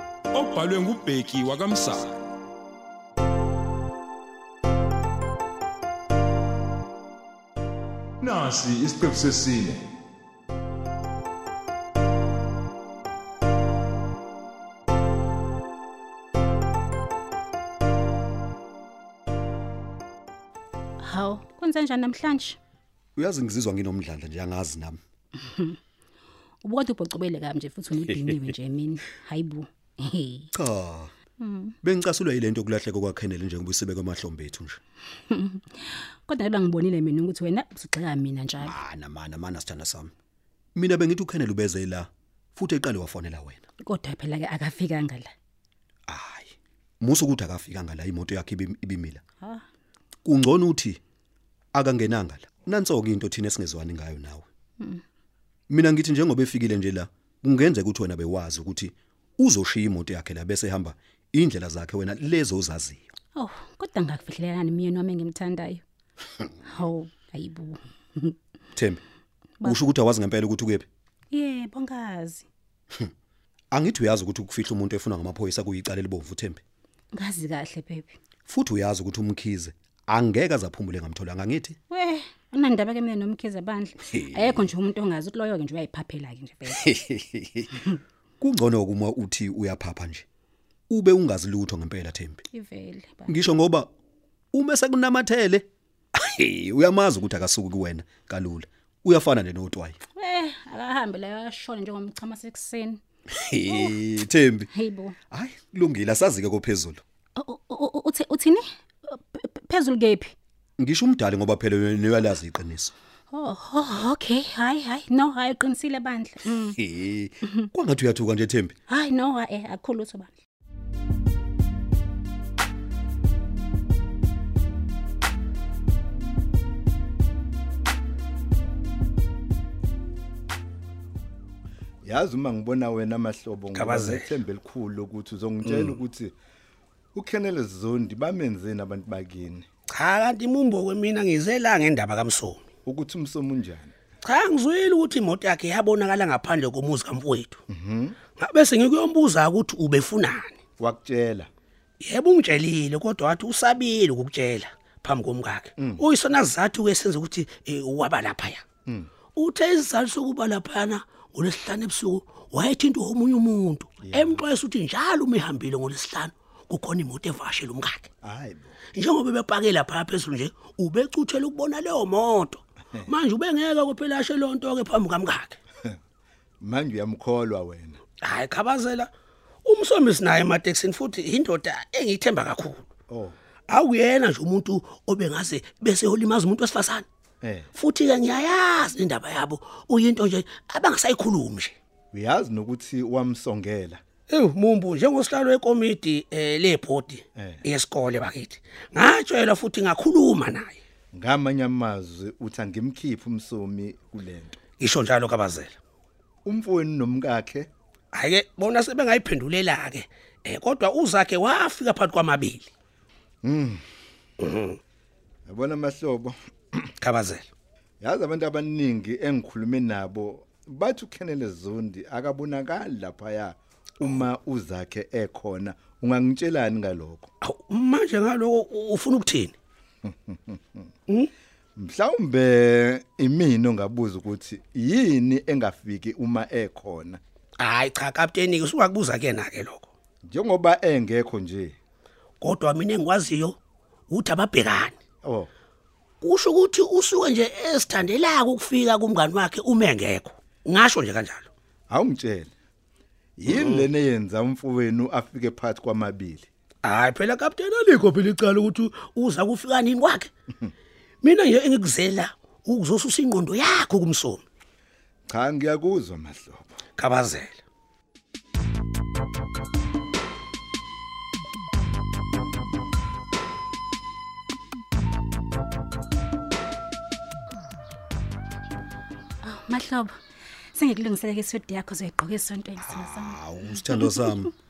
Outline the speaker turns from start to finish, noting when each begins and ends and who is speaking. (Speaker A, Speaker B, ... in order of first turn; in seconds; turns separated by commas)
Speaker A: 0.3-2.2, Speaker A: 8.2-9.8, Speaker B: 21.0-22.6, Speaker C: 23.2-25.0, Speaker B: 25.4-25.8, Speaker B: 26.6-30.5, Speaker C: 30.5-31.1, Speaker B: 31.4-31.8, Speaker C: 31.8-34.8, Speaker B: 35.3-38.8, Speaker C: 38.6-40.1, Speaker C: 40.8-43.6, Speaker B: 43.8-45.3, Speaker C: 46.1-49.2, Speaker C: 50.2-51.0, Speaker C: 51.7-54.5, Speaker C: 55.7-63.1, Speaker B: 63.4-65.8, Speaker B: 66.6-68.3, Speaker C: 68.8-69.0, Speaker C: 69.6-70.9, Speaker B: 71.3-72.5, Speaker C: 73.7-76.6, Speaker B: 77.1-78.2, Speaker C: 78.5-81.8, Speaker B: 81.9-86.9, Speaker C: 84.1-84.7, Speaker C: 86.8-87.7, Speaker C: 88.4-90.2, Speaker C: 90.9-92.4, Speaker B: 92.5-93.4, Speaker C: 93.3-93.9, Speaker C: 94.5-100.0, Speaker B: 100.2-103.0, Speaker C: 103.4-104.7, Speaker B: 104.7-105.2, Speaker C: 105.3-107.0, Speaker B: 107.4-110.3, Speaker C: 110.8-112.9, Speaker B: 113.3-116.8, Speaker C: 116.6-118.8, Speaker B: 118.9-120.3, Speaker D: 132.0-136.3, Speaker E: 133.7-134.4, Speaker E: 135.7-136.0, Speaker D: 137.2-139.7, Speaker E: 139.9-142.6, Speaker D: 142.8-143.9, Speaker E: 144.2-147.6, Speaker D: 147.7-148.2, Speaker E: 148.4-150.6, Speaker D: 150.8-151.5, Speaker E: 152.0-158.6, Speaker D: 155.8-156.1, Speaker D: 158.9-159.1, Speaker E: 159.4-168.1, Speaker D: 164.0-164.4, Speaker D: 168.2-168.8, Speaker E: 168.9-175.6, Speaker D: 176.6-178.0, Speaker E: 178.2-179.1, Speaker E: 179.7-182.9, Speaker D: 183.1-183.4, Speaker E: 183.7-187.1, Speaker D: 187.4-187.7, Speaker E: 187.8-191.8, Speaker D: 192.1-194.0, Speaker E: 194.3-200.8, Speaker D: 197.4-197.6, Speaker D: 201.1-204.6, Speaker E: 204.8-205.7, Speaker D: 206.4-207.7, Speaker E: 208.1-212.7, Speaker D: 213.4-213.8, Speaker E: 214.4-214.8, Speaker D: 215.5-216.8, Speaker E: 217.0-217.5, Speaker D: 218.0-227.3, Speaker E: 227.4-229.5, Speaker D: 230.1-230.8, Speaker D: 231.8-237.2, Speaker E: 237.6-239.9, Speaker D: 240.3-241.8, Speaker E: 242.4-243.6, Speaker E: 244.1-244.9, Speaker D: 245.2-245.5, Speaker E: 246.2-251.5, Speaker D: 251.9-252.5, Speaker D: 253.4-256.5, Speaker E: 253.5-253.9, Speaker E: 256.8-260.3, Speaker E: 261.2-264.4, Speaker D: 265.3-266.8, Speaker E: 267.0-267.6, Speaker B: 279.4-280.1, Speaker B: 280.7-284.3, Speaker C: 282.9-284.5